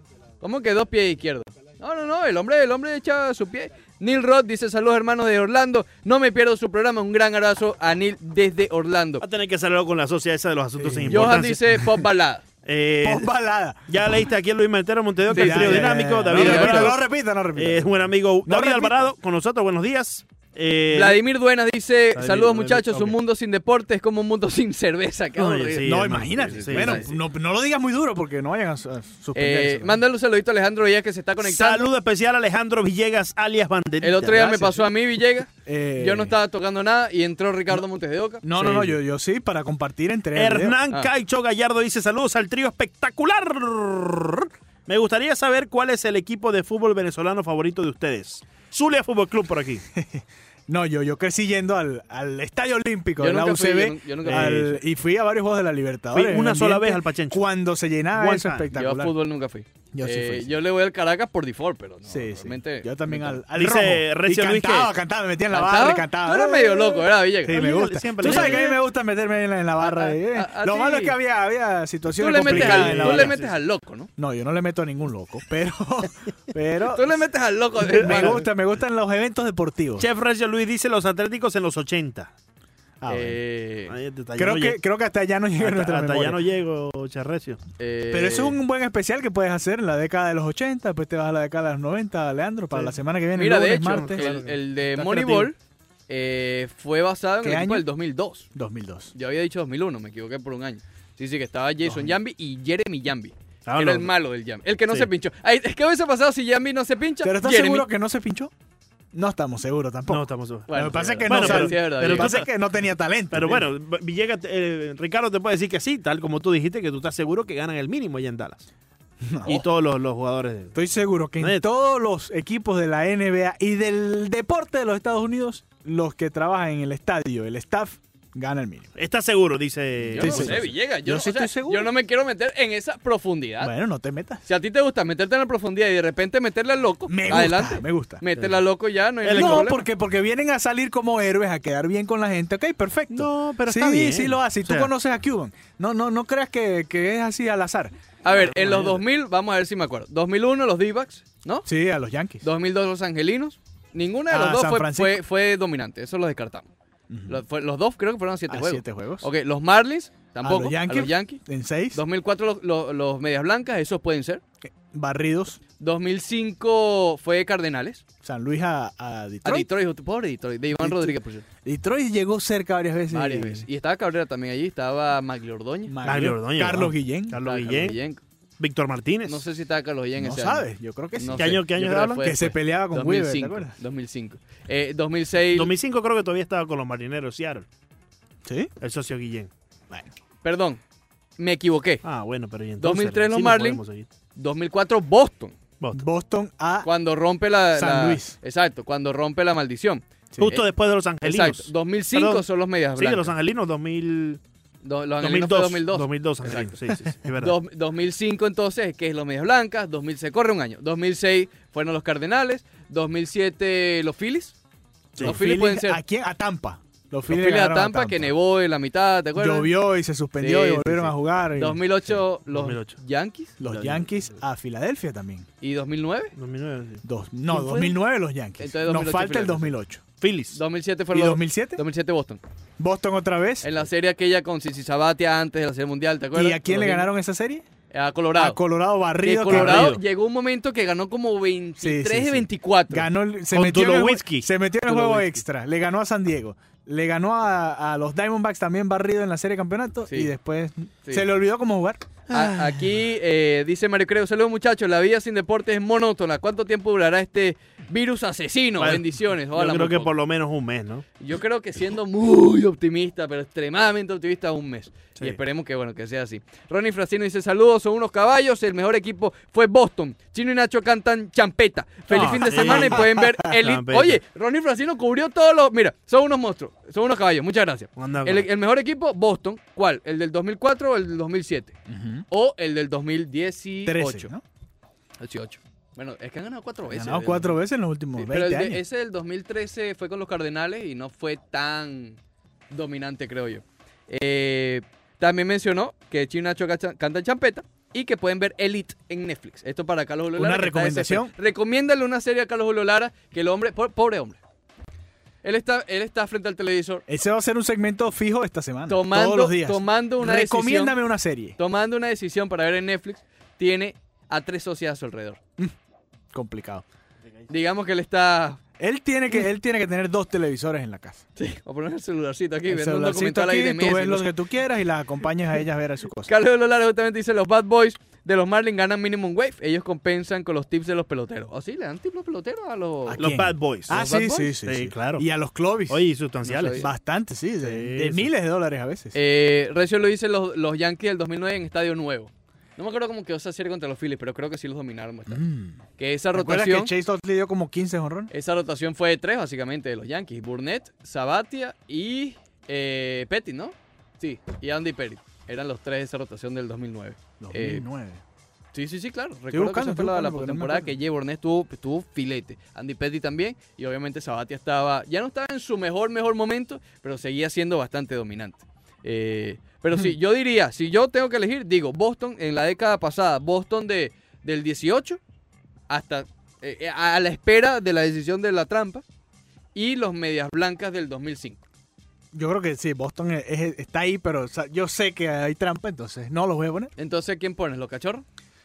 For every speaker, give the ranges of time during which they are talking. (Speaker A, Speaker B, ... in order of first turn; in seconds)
Speaker A: 0.4-9.2, 11.1-12.4, 15.3-16.9, 20.9-27.1, 29.4-31.9, 34.0-38.9, 53.2-54.8, 58.7-63.4, 65.5-68.8, 69.8-71.2, 72.2-74.1, 76.9-78.5, 83.1-84.0, 87.8-88.6, 93.3-95.6, 96.1-98.5, 99.1-107.9, 110.7-112.4, 130.1-133.7, 134.5-139.8, 148.2-151.7, 152.4-156.7, 157.3-161.4, 161.9-164.4, 165.8-168.0, 169.4-171.4, 173.1-176.0, 177.4-178.2, 179.3-185.7, 190.4-190.8, 191.4-192.0, 192.8-193.8, 194.4-195.6, 196.8-200.7, 201.2-203.3, 204.8-214.6, 215.2-216.0, 217.3-219.7, 220.4-223.6, 225.6-226.3, 227.5-228.0, 228.6-229.7, 230.5-232.4, 233.6-237.1, 237.9-238.6, 239.2-243.1, 244.9-245.4, 250.1-250.3, 252.3-260.1, 261.2-281.8, 282.3-284.3, 285.2-287.6, 288.2-292.2, 292.7-304.4, 305.4-307.0, 308.9-311.0, 311.6-315.4, 317.5-318.6, 321.4-324.3, 326.3-333.2, 333.9-334.5, 336.4-336.9, 339.1-345.4, 346.0-346.9, 348.3-357.8, 358.7-375.2, 375.9-379.0, 379.7-381.6, 387.0-388.2
Speaker B: 9.2-11.6, 12.7-13.3, 13.9-21.2, 22.1-23.2, 25.4-27.0, 31.4-34.9, 40.4-49.8, 54.2-54.7, 56.1-57.4, 58.1-58.7, 63.5-64.9, 67.5-68.7, 72.4-73.5, 77.8-78.4, 80.0-82.3, 83.9-84.8, 85.6-87.6, 93.8-95.3, 103.7-104.1, 110.1-112.5, 113.3-118.7, 119.5-120.8, 121.4-121.6, 129.0-130.7, 139.2-139.7, 143.1-144.9, 148.5-148.9, 176.0-178.0, 178.6-179.4, 181.3-182.3, 185.5-187.7, 188.8-189.5, 192.0-194.1, 195.8-196.1, 200.4-204.4, 205.2-207.6, 222.5-223.0, 223.6-224.2, 226.4-227.0, 230.2-230.6, 239.5-240.0, 243.5-244.5, 252.3-252.8, 258.8-261.1, 272.1-274.2, 278.0-278.5, 333.2-334.0, 334.6-335.3, 335.9-336.8, 337.6-338.3
Speaker C: 10.8-11.3, 13.0-14.1, 15.3-19.1, 25.8-30.0, 35.7-36.4, 38.4-40.8, 49.9-59.1, 59.9-60.5, 62.1-73.5, 74.2-77.2, 77.8-80.1, 83.0-83.4, 84.4-86.4, 88.1-94.2, 95.2-95.5, 97.4-97.9, 98.5-99.1, 107.2-108.5, 109.1-113.7, 119.2-119.6, 120.8-128.9, 130.2-131.9, 133.6-134.4, 137.1-138.2, 139.3-147.9, 148.6-148.9, 151.7-152.4, 154.3-155.2, 157.1-157.4, 158.5-159.3, 160.4-162.0, 164.9-165.6, 168.2-169.7, 170.8-173.7, 175.9-177.4, 180.2-181.7, 182.2-183.7, 188.4-188.7, 195.9-196.9, 197.8-198.3, 215.2-218.3, 219.4-222.2, 223.6-225.5, 227.0-230.0, 231.1-231.8, 232.8-233.7, 236.3-237.7, 238.4-240.0, 241.8-252.2, 272.2-273.6, 281.9-282.2, 283.9-284.4, 286.9-288.8, 300.4-301.3, 307.1-311.6, 316.3-316.8, 318.8-321.2, 322.7-326.3, 333.1-336.1, 336.8-339.2, 345.3-345.8, 346.3-348.3, 357.4-358.2, 359.5-360.9, 382.3-386.9